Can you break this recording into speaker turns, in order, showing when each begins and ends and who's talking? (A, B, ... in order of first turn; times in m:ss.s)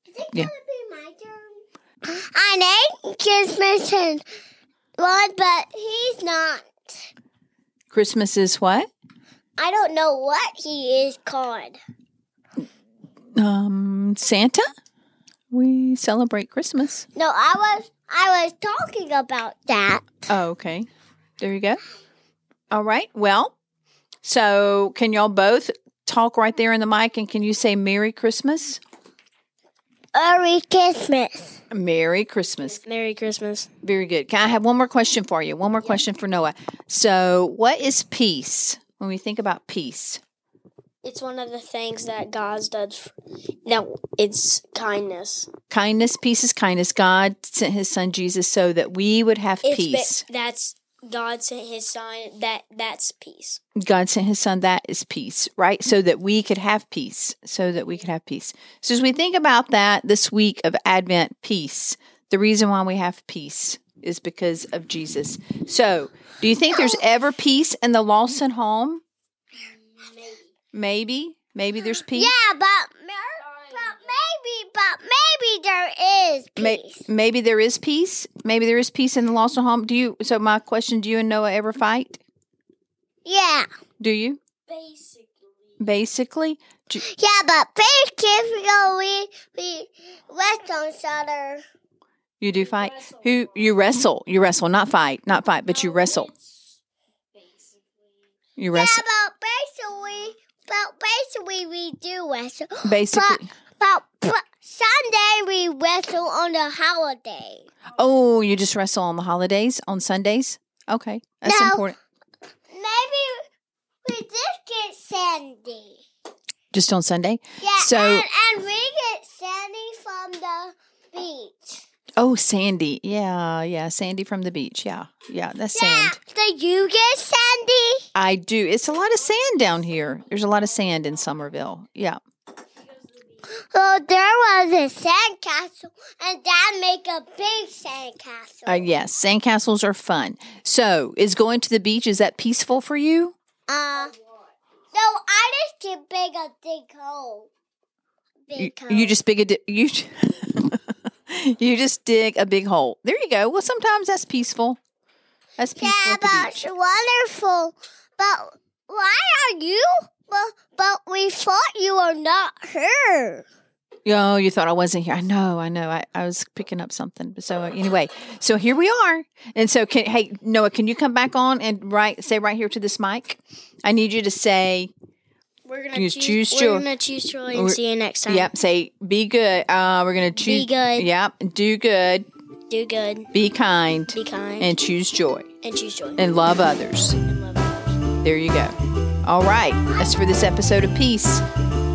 0:00.1-0:04.2 A
0:05.0-0:07.0 A
0:07.9-0:08.9 B
0:09.6-0:11.8 A
0:13.3-0:14.7 B
0:15.5-0:17.1 B
0:17.2-0:20.3 A
0:20.3-0:20.9 B
0:21.4-0:21.8 B
0:22.7-0:23.5 B
0:24.2-0:28.8 B
0:30.1-0:31.6 A
0:31.7-0:32.8 B
0:32.7-0:33.7 C
0:33.8-0:40.2 B
0:41.0-0:43.1 C
0:43.6-0:45.5 C
0:45.7-0:50.2 B
0:49.6-0:53.6 C
0:53.8-1:09.0 B
1:06.7-1:07.0 A
1:09.9-1:10.4 C
1:10.7-1:12.3 B
1:12.0-1:17.0 A
1:16.6-1:22.2 B
1:23.2-1:23.7 A
1:24.0-1:24.4 B
1:24.7-1:25.3 C
1:25.8-1:27.0 B
1:27.0-1:31.6 A
1:32.4-1:36.3 B
1:38.6-1:39.0 B
1:38.7-1:47.7 A
1:42.8-1:43.5 B
1:47.9-1:52.0 B
1:51.4-1:51.8 A
1:52.7-1:53.4 A
1:54.0-1:56.0 A
1:56.7-1:58.2 B
1:57.6-2:01.8 A
2:02.2-2:06.2 B
2:05.7-2:08.1 A
2:08.1-2:12.2 B
2:13.5-2:18.9 A
2:18.6-2:23.3 B
2:23.7-2:24.1 A
2:24.9-2:27.5 A
2:28.5-2:29.2 A
2:28.6-2:34.8 B
2:35.6-2:36.6 B
2:35.8-2:43.4 A
2:44.0-2:54.9 B
2:55.6-2:58.5 C
2:55.9-2:56.9 B
2:57.5-3:02.3 B
3:00.4-3:01.1 C
3:02.7-3:03.3 C
3:03.3-3:05.5 B
3:04.1-3:04.7 C
3:05.6-3:06.2 C
3:06.2-3:07.2 B
3:07.2-3:08.0 C
3:08.2-3:11.4 B